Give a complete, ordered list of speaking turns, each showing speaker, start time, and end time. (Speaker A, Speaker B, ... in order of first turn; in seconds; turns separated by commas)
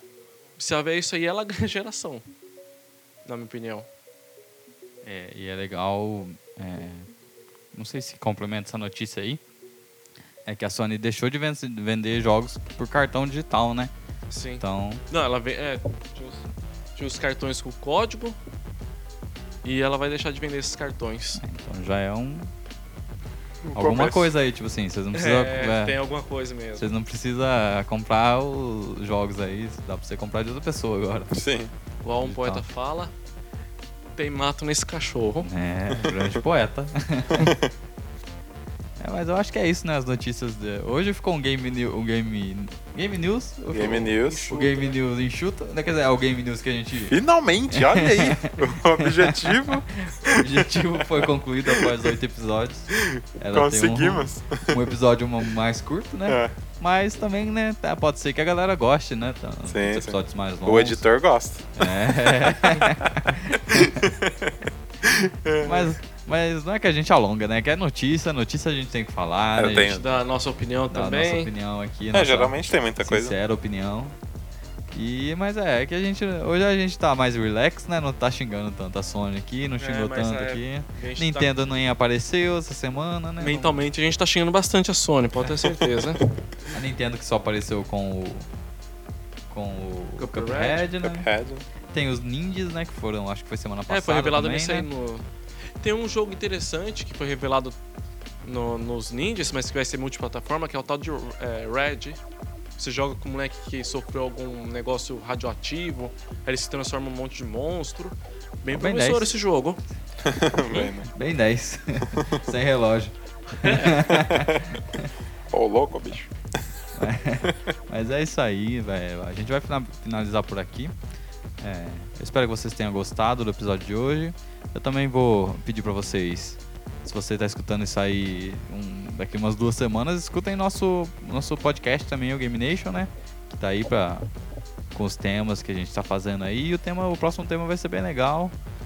Speaker A: 0.6-2.2, Speaker A: 3.3-3.9, Speaker B: 5.0-7.1, Speaker B: 7.7-9.4, Speaker B: 10.5-13.9, Speaker A: 14.3-18.4, Speaker B: 14.6-15.0, Speaker A: 19.6-21.4, Speaker B: 21.4-22.5, Speaker C: 23.6-24.3, Speaker B: 23.8-25.9, Speaker A: 25.1-26.9, Speaker B: 26.8-31.3, Speaker C: 31.3-31.7, Speaker A: 32.0-33.1, Speaker B: 32.2-32.6, Speaker A: 34.2-35.5, Speaker B: 35.4-37.5, Speaker C: 35.9-36.4, Speaker C: 37.3-37.7, Speaker B: 39.0-47.2, Speaker C: 43.7-44.5, Speaker A: 44.2-45.0, Speaker C: 47.1-52.1, Speaker B: 47.7-61.0, Speaker C: 52.9-54.9, Speaker C: 56.3-56.5, Speaker C: 59.7-63.1, Speaker B: 61.8-64.0, Speaker C: 63.7-66.0, Speaker B: 65.6-70.0, Speaker C: 69.6-70.1, Speaker A: 69.9-71.5, Speaker B: 70.9-74.2, Speaker C: 72.1-73.4, Speaker B: 74.9-83.8, Speaker A: 79.8-81.5, Speaker A: 83.4-86.2, Speaker C: 85.7-86.0, Speaker B: 86.7-88.5, Speaker B: 89.5-91.3, Speaker A: 90.2-90.9, Speaker C: 91.0-91.6, Speaker B: 91.9-94.9, Speaker A: 93.9-95.2, Speaker A: 95.8-97.8, Speaker A: 98.4-102.2, Speaker A: 102.8-109.8, Speaker B: 108.7-109.3, Speaker C: 110.2-111.1, Speaker B: 110.6-115.1, Speaker C: 112.0-112.5, Speaker A: 113.6-114.1, Speaker C: 114.3-114.7, Speaker C: 115.5-116.3, Speaker B: 117.0-121.0, Speaker B: 121.6-134.3, Speaker B: 134.9-138.6